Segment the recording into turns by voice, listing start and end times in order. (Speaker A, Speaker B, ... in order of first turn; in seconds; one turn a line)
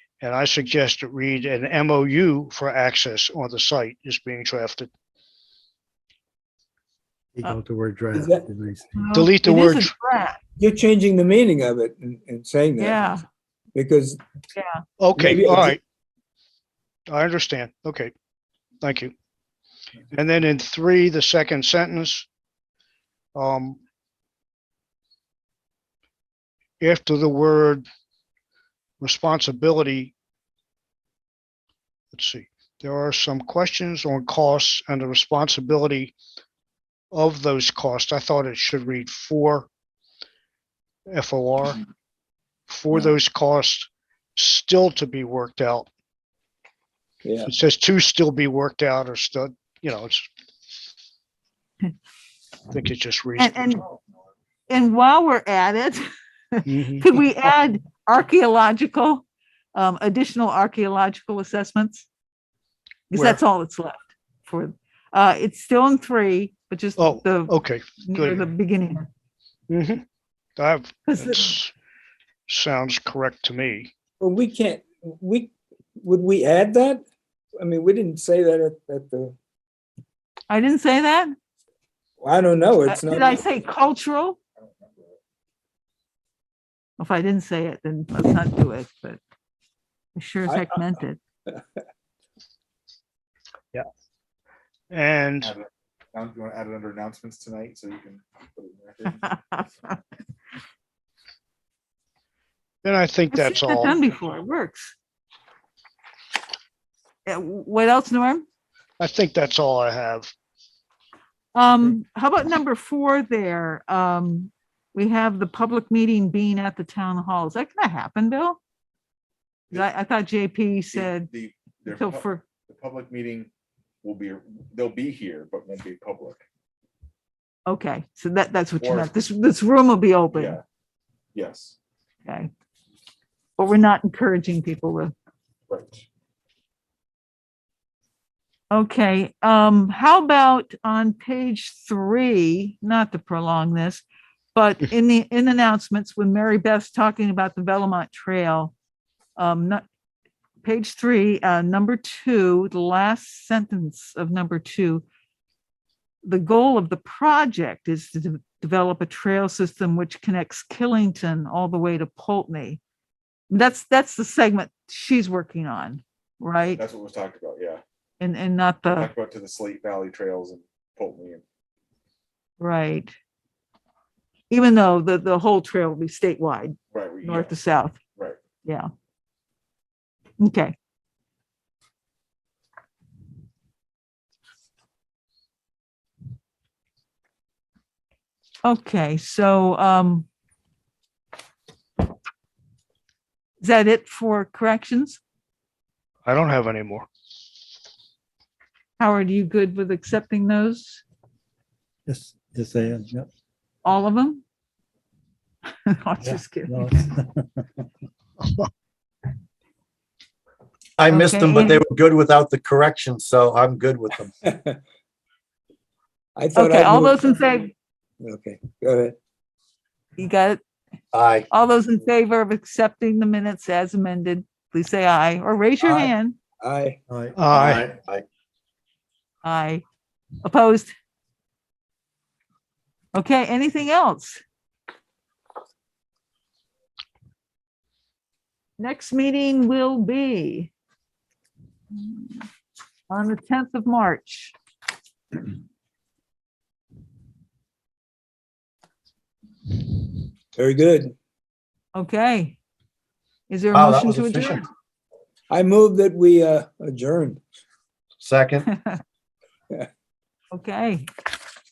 Speaker A: 0.2-4.9
Speaker B: 7.4-8.8
Speaker C: 8.1-8.4
Speaker D: 8.9-10.4
Speaker A: 9.1-9.9
Speaker C: 10.6-13.1
Speaker D: 12.8-13.2
Speaker C: 13.7-14.2
Speaker D: 14.6-14.8
Speaker A: 15.0-15.8
Speaker C: 15.2-15.8
Speaker A: 17.1-18.1
Speaker A: 18.8-19.1
Speaker A: 20.1-22.3
Speaker A: 23.3-23.8
Speaker A: 26.8-27.8
Speaker A: 29.0-30.1
Speaker A: 32.1-36.1
Speaker A: 37.1-39.7
Speaker A: 41.1-41.8
Speaker A: 42.7-45.9
Speaker C: 47.2-47.5
Speaker A: 47.5-50.3
Speaker A: 52.7-53.8
Speaker D: 53.4-53.8
Speaker D: 54.7-59.2
Speaker A: 56.7-57.1
Speaker D: 59.7-62.0
Speaker D: 63.1-69.1
Speaker A: 63.1-63.4
Speaker A: 67.0-68.4
Speaker A: 69.7-70.0
Speaker A: 70.6-71.7
Speaker D: 71.1-71.5
Speaker A: 72.5-73.9
Speaker C: 74.2-77.0
Speaker C: 77.6-79.3
Speaker D: 80.5-81.3
Speaker C: 82.2-83.4
Speaker D: 82.9-84.4
Speaker E: 84.7-85.1
Speaker D: 87.0-89.2
Speaker D: 90.2-91.2
Speaker C: 90.5-90.8
Speaker A: 94.9-95.5
Speaker E: 95.4-99.2
Speaker D: 99.2-100.0
Speaker A: 102.8-104.0
Speaker D: 103.3-104.9
Speaker D: 107.2-108.4
Speaker A: 109.0-110.3
Speaker D: 111.5-118.6
Speaker D: 119.7-121.3
Speaker E: 120.9-123.5
Speaker D: 121.9-122.4
Speaker E: 124.0-126.4
Speaker D: 127.7-130.6
Speaker E: 128.8-129.1
Speaker E: 130.3-130.6
Speaker E: 131.3-131.8
Speaker D: 132.2-132.5
Speaker D: 133.6-135.1
Speaker E: 135.7-136.0
Speaker D: 138.7-144.0
Speaker D: 144.5-148.7
Speaker D: 149.4-149.8
Speaker D: 150.6-155.0
Speaker D: 156.2-162.8
Speaker D: 163.5-166.8
Speaker E: 166.7-167.8
Speaker D: 168.2-169.1
Speaker E: 168.9-171.4
Speaker D: 172.6-173.1
Speaker D: 174.5-178.0
Speaker E: 176.9-177.5
Speaker D: 180.4-180.7
Speaker D: 188.6-190.2
Speaker D: 193.6-195.2
Speaker A: 196.2-197.1
Speaker D: 199.0-201.0
Speaker B: 202.1-203.3
Speaker D: 203.8-204.4
Speaker D: 205.8-207.2
Speaker B: 206.7-207.6
Speaker F: 211.0-214.3
Speaker D: 211.1-211.8
Speaker C: 214.4-214.8
Speaker C: 216.3-217.3
Speaker D: 216.6-217.7
Speaker C: 218.2-219.2
Speaker D: 220.2-220.6
Speaker F: 221.1-221.5
Speaker D: 221.5-226.3
Speaker C: 225.8-227.0
Speaker B: 227.1-227.3
Speaker A: 227.3-227.9
Speaker F: 227.5-228.2
Speaker D: 229.4-229.8
Speaker D: 230.4-230.9
Speaker D: 233.1-234.4
Speaker D: 238.8-240.7
Speaker D: 243.1-244.5
Speaker C: 250.6-251.1
Speaker D: 251.9-252.6
Speaker D: 253.5-254.7
Speaker F: 253.7-254.7
Speaker C: 255.5-257.4
Speaker F: 258.2-258.7
Speaker D: 260.5-261.1